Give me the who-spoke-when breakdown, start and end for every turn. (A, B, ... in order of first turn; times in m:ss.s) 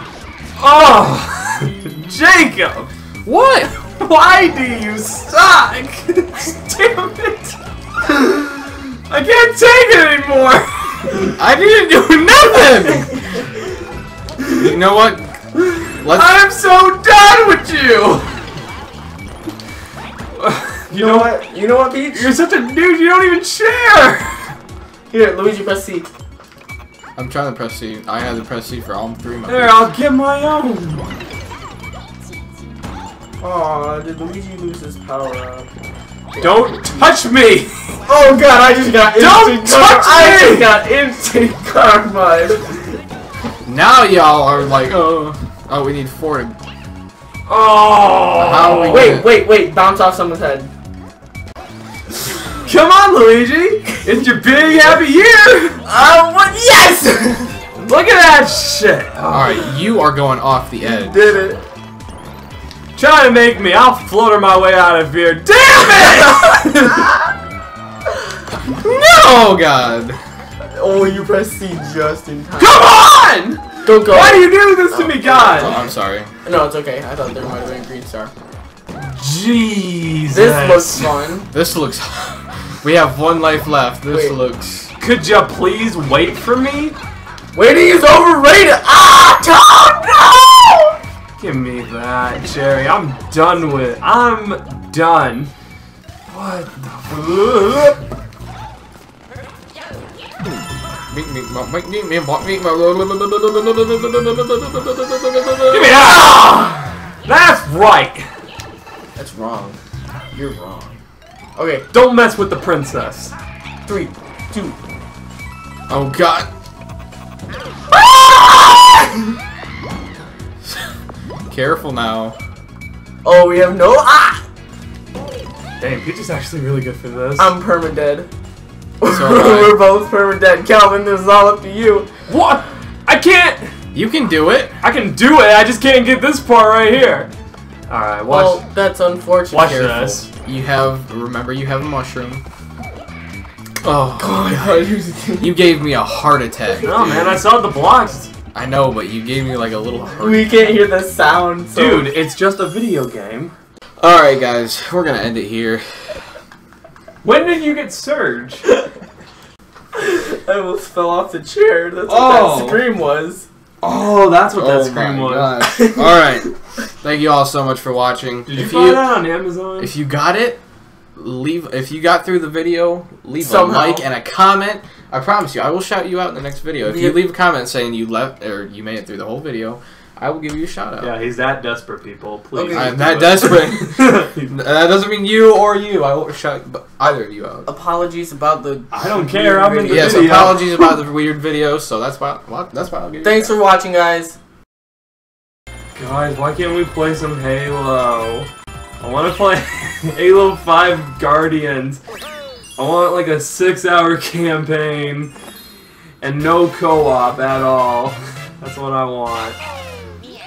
0:00.6-0:02.9 A
0:03.2-0:03.7 B
0:03.9-0:07.6 A
0:08.1-0:11.3 A
0:11.4-0:13.1 B
0:14.5-0:15.4 B
0:15.6-0:18.3 A
0:16.0-0:16.3 B
0:20.4-0:21.3 A
0:20.9-0:22.3 C
0:22.1-0:24.5 A
0:25.1-0:26.1 C
0:27.2-0:29.8 B
0:29.5-0:31.1 A
0:33.4-0:35.7 C
0:36.3-0:37.1 C
0:36.4-0:38.0 A
0:38.1-0:42.9 C
0:39.1-0:40.8 A
0:43.6-0:46.6 B
0:47.5-0:49.1 A
0:48.4-0:49.3 B
0:48.8-0:50.7 C
0:52.6-0:55.8 A
0:55.8-0:57.6 C
0:57.8-0:59.6 A
0:59.3-1:01.3 B
1:00.8-1:01.6 C
1:03.0-1:07.1 A
1:08.7-1:10.2 B
1:10.7-1:12.8 C
1:12.6-1:15.8 A
1:13.8-1:15.9 C
1:15.6-1:16.3 B
1:16.4-1:18.3 C
1:19.0-1:21.1 A
1:20.3-1:21.5 C
1:21.5-1:24.9 B
1:24.1-1:24.4 C
1:25.0-1:27.0 A
1:27.5-1:31.0 C
1:31.4-1:35.5 A
1:36.3-1:38.0 A
1:41.1-1:46.0 B
1:45.7-1:48.3 A
1:49.2-1:49.8 C
1:50.3-1:51.0 C
1:51.6-1:51.9 C
1:51.9-1:53.3 A
1:53.8-1:54.8 C
1:55.9-1:56.5 B
2:01.5-2:02.4 B
2:03.2-2:04.4 C
2:05.8-2:07.6 A
2:07.4-2:08.3 C
2:09.0-2:12.1 C
2:09.0-2:09.8 B
2:12.3-2:13.7 A
2:13.9-2:14.8 B
2:14.8-2:17.3 A
2:17.9-2:18.6 A
2:18.3-2:20.2 C
2:19.5-2:20.3 A
2:20.2-2:22.4 B
2:23.8-2:27.4 B
2:24.2-2:25.6 C
2:26.8-2:28.3 A
2:28.5-2:30.8 B
2:30.2-2:32.1 C
2:31.7-2:33.5 A
2:34.0-2:36.2 B
2:37.2-2:38.6 A
2:39.9-2:43.4 C
2:42.1-2:42.9 A
2:43.8-2:45.7 A
2:44.5-2:46.5 B
2:45.8-2:46.4 C
2:47.0-2:49.1 B
2:48.5-2:49.9 A
2:49.8-2:50.6 B
2:51.2-3:01.1 B
2:53.4-2:54.1 C
2:56.8-2:57.2 C
3:01.0-3:04.5 A
3:02.5-3:03.0 C
3:02.7-3:07.7 B
3:07.6-3:10.6 C
3:08.9-3:10.7 A
3:09.9-3:13.5 B
3:13.2-3:14.4 C
3:16.0-3:18.5 A
3:19.0-3:22.0 A
3:22.8-3:25.3 A
3:26.2-3:29.6 A